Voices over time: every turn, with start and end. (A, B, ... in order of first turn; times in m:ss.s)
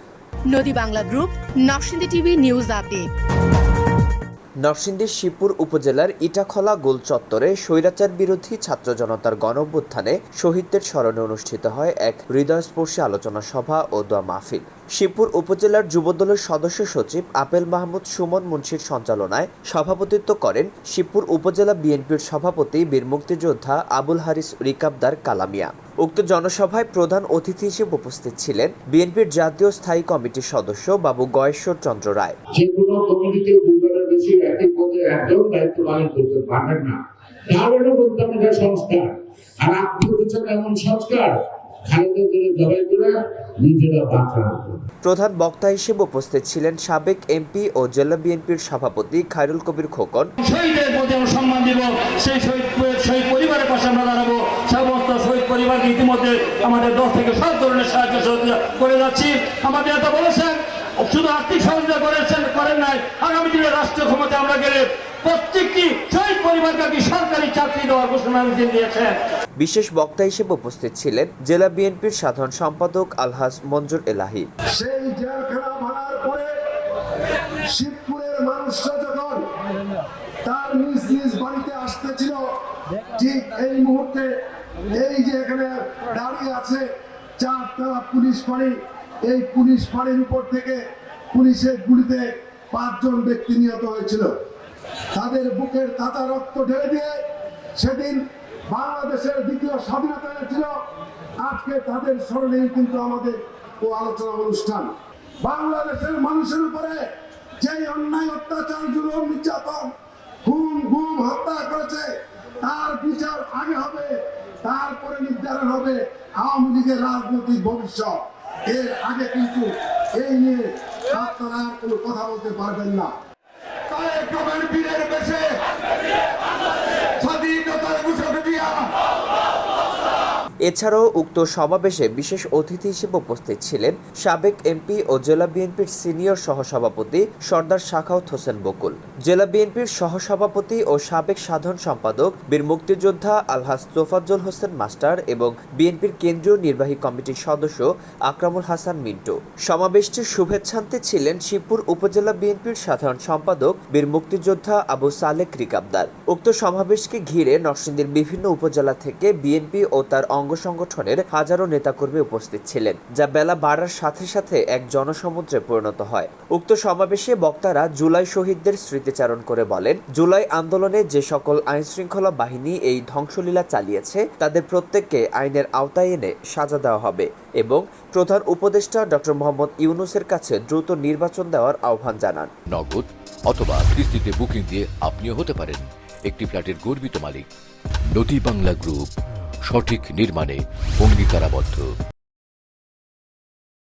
0:00.5-0:03.1 A
0:04.6-0:32.3 B
0:32.6-0:36.9 C
0:37.5-0:39.0 C
0:39.6-0:41.3 C
0:41.9-0:43.1 C
0:43.6-0:44.8 C
0:45.0-0:50.3 B
0:50.4-1:09.2 D
1:09.6-1:14.5 B
1:14.7-1:16.5 E
1:17.7-1:19.4 E
1:20.4-1:22.4 E
1:23.2-1:24.3 E
1:24.9-1:26.8 E
1:27.4-1:28.7 E
1:29.2-1:30.8 E
1:31.3-1:34.3 E
1:35.1-1:37.2 E
1:37.8-1:40.7 E
1:41.4-1:44.9 E
1:45.4-1:47.0 E
1:47.6-1:49.9 E
1:50.4-1:52.1 E
1:52.6-2:03.1 E
2:03.9-2:05.5 E
2:07.2-2:08.9 E
2:10.6-3:02.5 B
3:02.7-3:07.5 F
3:08.1-3:09.1 F
3:09.6-3:11.9 F